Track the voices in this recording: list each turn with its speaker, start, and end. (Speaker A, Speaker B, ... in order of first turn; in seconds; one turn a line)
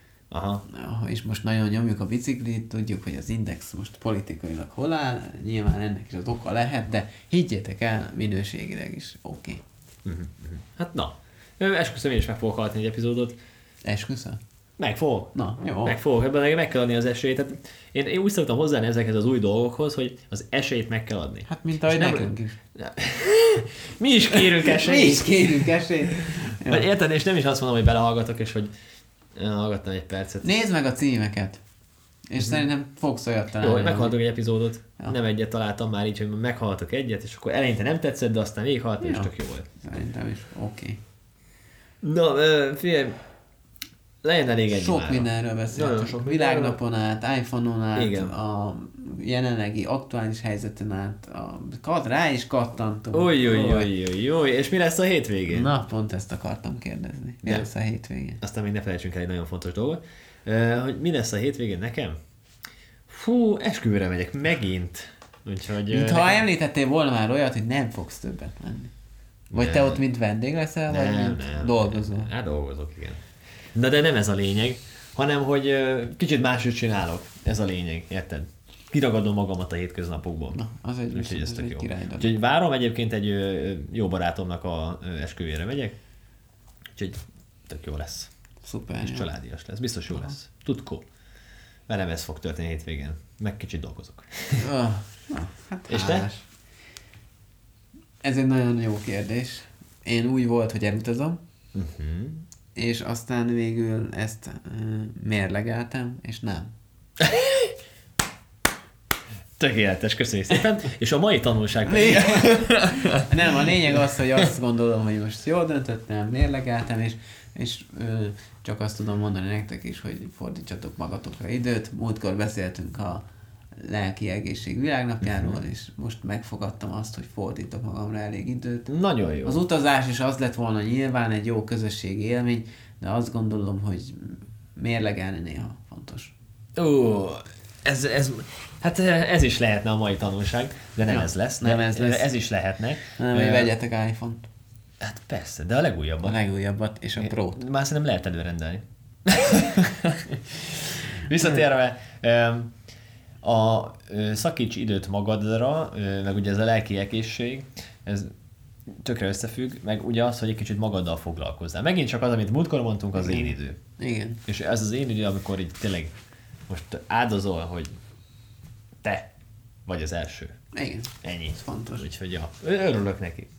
Speaker A: 0.3-0.7
Speaker B: 0.7-9.6
Speaker A: 10.1-13.4
Speaker B: 13.8-14.4
Speaker A: 14.8-15.3
Speaker B: 15.3-16.0
Speaker A: 15.8-28.7
Speaker B: 21.5-22.6
Speaker B: 24.4-26.9
Speaker A: 29.4-30.6
Speaker B: 30.4-31.6
Speaker B: 32.3-34.2
Speaker A: 33.6-39.7
Speaker B: 39.0-41.0
Speaker A: 42.0-43.2
Speaker A: 44.2-46.8
Speaker B: 44.7-53.9
Speaker A: 48.0-48.3
Speaker A: 53.1-55.7
Speaker B: 55.5-58.4
Speaker A: 58.4-62.2
Speaker A: 63.1-66.4
Speaker B: 65.9-68.9
Speaker A: 69.5-70.0
Speaker B: 69.5-72.3
Speaker A: 70.9-73.2
Speaker A: 73.7-86.0
Speaker B: 80.5-82.3
Speaker A: 87.0-88.3
Speaker B: 88.6-89.3
Speaker A: 89.0-91.0
Speaker A: 91.9-94.7
Speaker B: 94.6-96.4
Speaker A: 95.9-96.3
Speaker B: 98.2-101.4
Speaker A: 101.7-102.4
Speaker B: 102.8-106.7
Speaker A: 107.2-107.7
Speaker A: 109.6-113.7
Speaker B: 111.8-123.2
Speaker B: 123.8-128.9
Speaker A: 128.9-129.6
Speaker B: 129.4-136.3
Speaker A: 136.8-143.7
Speaker B: 141.1-142.3
Speaker B: 143.2-144.4
Speaker A: 145.0-146.4
Speaker B: 146.2-147.6
Speaker A: 147.2-152.7
Speaker A: 153.4-158.3
Speaker A: 158.9-163.8
Speaker B: 163.2-164.4
Speaker A: 164.5-166.1
Speaker A: 166.7-168.0
Speaker A: 169.0-169.3
Speaker A: 169.9-170.6
Speaker B: 170.7-172.1
Speaker A: 171.2-173.5